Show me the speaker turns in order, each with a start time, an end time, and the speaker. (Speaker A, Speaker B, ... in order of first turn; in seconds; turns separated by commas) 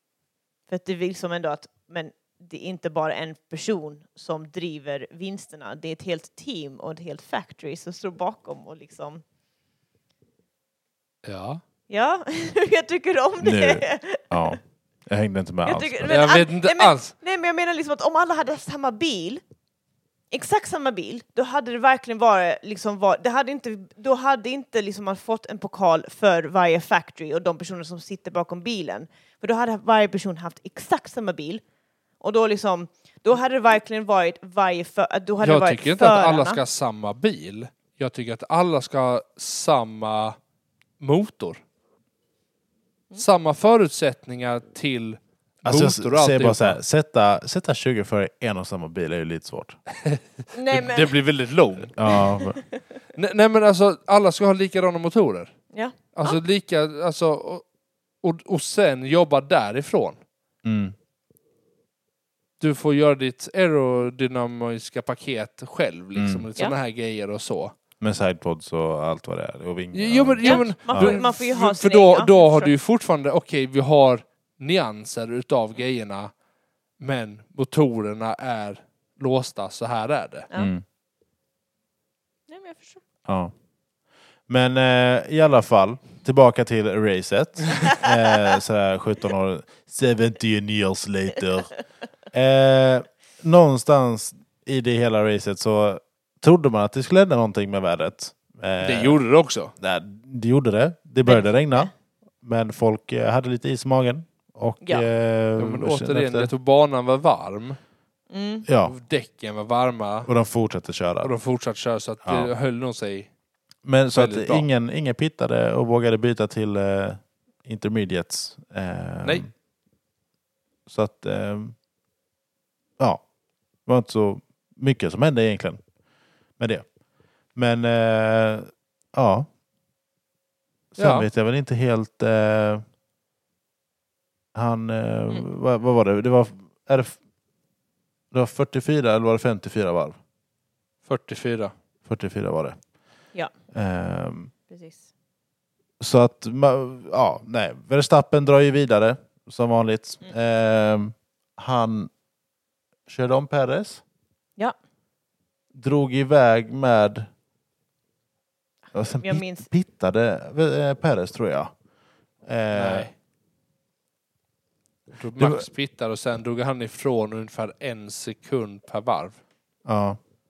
Speaker A: 0.7-9.2, Speaker B: 11.2-11.6, Speaker A: 11.9-14.6, Speaker C: 13.4-16.2, Speaker A: 15.6-19.4, Speaker B: 16.1-17.1, Speaker A: 20.3-31.6, Speaker A: 32.2-36.6, Speaker B: 35.4-40.4, Speaker B: 41.0-41.6, Speaker B: 43.1-46.8, Speaker C: 45.6-49.8, Speaker B: 49.9-52.0, Speaker A: 50.5-51.1, Speaker C: 52.0-52.6, Speaker A: 52.1-52.8, Speaker B: 53.1-55.5, Speaker A: 55.7-56.4, Speaker B: 56.1-57.6, Speaker B: 58.2-60.2, Speaker C: 60.6-60.9, Speaker B: 62.6-67.7, Speaker C: 66.2-66.4, Speaker C: 68.0-71.2, Speaker B: 69.9-76.3, Speaker A: 70.4-72.7, Speaker B: 77.0-80.5, Speaker C: 80.5-80.8, Speaker A: 82.5-83.0, Speaker C: 83.2-83.5, Speaker C: 84.5-91.7, Speaker C: 92.3-99.2, Speaker B: 98.8-99.7, Speaker C: 99.8-101.9, Speaker A: 101.2-101.9, Speaker C: 102.4-106.5, Speaker A: 104.8-105.0, Speaker B: 105.6-107.8, Speaker A: 108.3-108.7, Speaker C: 108.7-108.9, Speaker B: 108.8-110.3, Speaker C: 110.2-111.3, Speaker B: 111.2-113.3, Speaker C: 112.2-112.5, Speaker C: 113.8-119.5, Speaker B: 114.1-114.7, Speaker C: 120.9-121.8, Speaker C: 123.0-123.2, Speaker C: 123.8-125.8, Speaker C: 126.6-126.8, Speaker C: 127.5-129.5, Speaker C: 130.9-132.8, Speaker B: 131.0-131.2, Speaker C: 134.5-137.2, Speaker C: 138.3-140.2, Speaker B: 141.1-141.7, Speaker C: 142.0-142.8, Speaker C: 143.7-144.5, Speaker A: 144.7-145.0, Speaker C: 146.0-152.1, Speaker C: 153.1-154.0, Speaker C: 155.7-157.3, Speaker C: 158.9-161.7, Speaker A: 159.2-159.7, Speaker C: 162.4-163.1, Speaker B: 162.7-163.1, Speaker B: 165.1-169.4, Speaker C: 165.4-165.6, Speaker C: 169.8-170.2